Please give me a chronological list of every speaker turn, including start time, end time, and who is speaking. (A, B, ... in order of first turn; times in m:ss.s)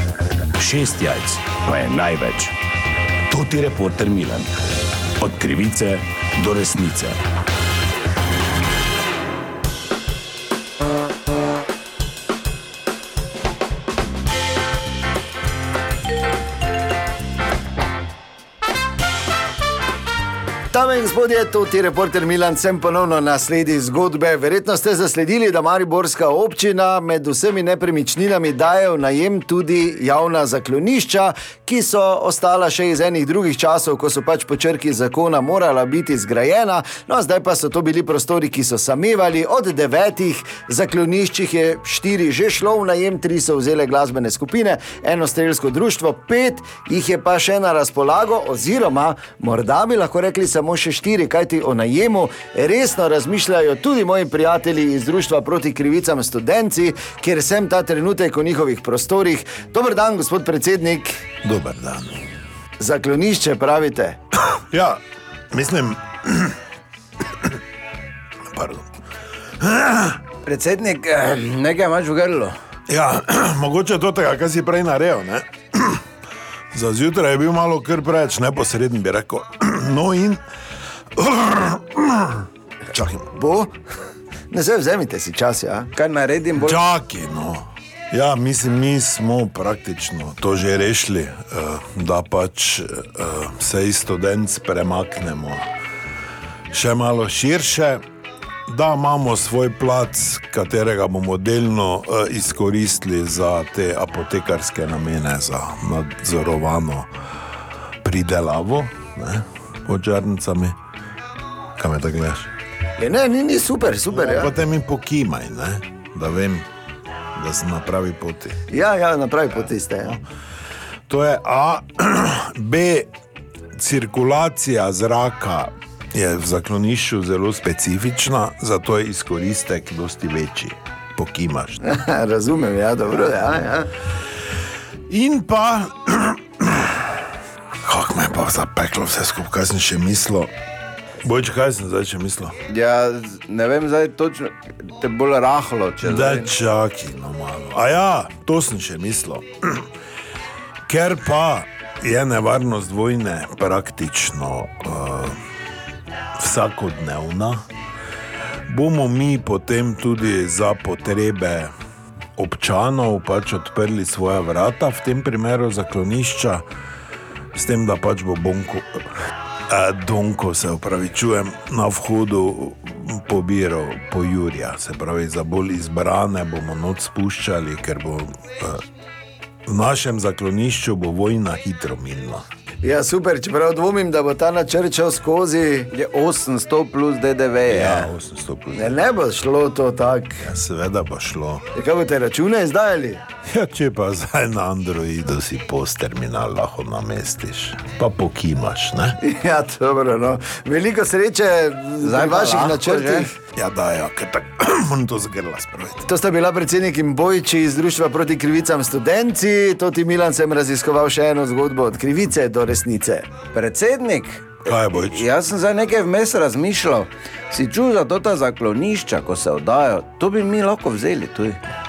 0:00.6-0:02.6 A
0:03.3-0:04.5 A
0:05.2-0:07.2 A
0:20.7-1:01.2 B
1:01.4-1:02.1 C
1:02.8-1:04.2 B
1:04.6-1:05.0 C
1:05.5-1:06.6 C
1:08.5-1:08.9 C
1:09.6-1:10.2 C
1:10.4-1:12.5 D
1:12.9-1:16.0 C
1:16.7-1:20.4 C
1:21.2-1:23.6 C
1:24.5-1:25.9 B
1:25.9-1:26.8 D
1:26.5-1:35.7 C
1:36.7-1:38.0 C
1:38.7-1:47.1 C
1:48.0-1:50.8 C
1:51.8-1:52.5 C
1:53.0-1:54.6 B
1:54.1-1:56.7 C
1:57.4-1:58.6 C
1:58.7-2:00.2 B
2:01.1-2:03.1 C
2:03.8-2:11.8 C
2:11.8-2:13.9 B
2:15.1-2:17.2 C
2:17.8-2:20.5 C
2:21.2-2:22.6 C
2:22.7-2:26.5 D
2:26.0-2:29.8 C
2:30.9-2:35.4 C
2:36.4-2:37.6 C
2:38.7-2:41.7 C
2:42.4-2:46.6 C
2:47.5-2:49.0 C
2:49.7-2:58.8 C
2:59.7-3:02.4 C
3:02.8-3:05.9 B
3:05.9-3:08.1 D
3:07.7-3:09.0 C
3:08.8-3:10.4 B
3:10.4-3:11.7 C
3:11.7-3:13.2 B
3:13.5-3:19.2 C
3:19.2-3:23.3 B
3:22.0-3:23.3 D
3:23.5-3:26.1 C
3:26.1-3:33.3 B
3:33.5-3:41.6 D
3:34.6-3:35.2 C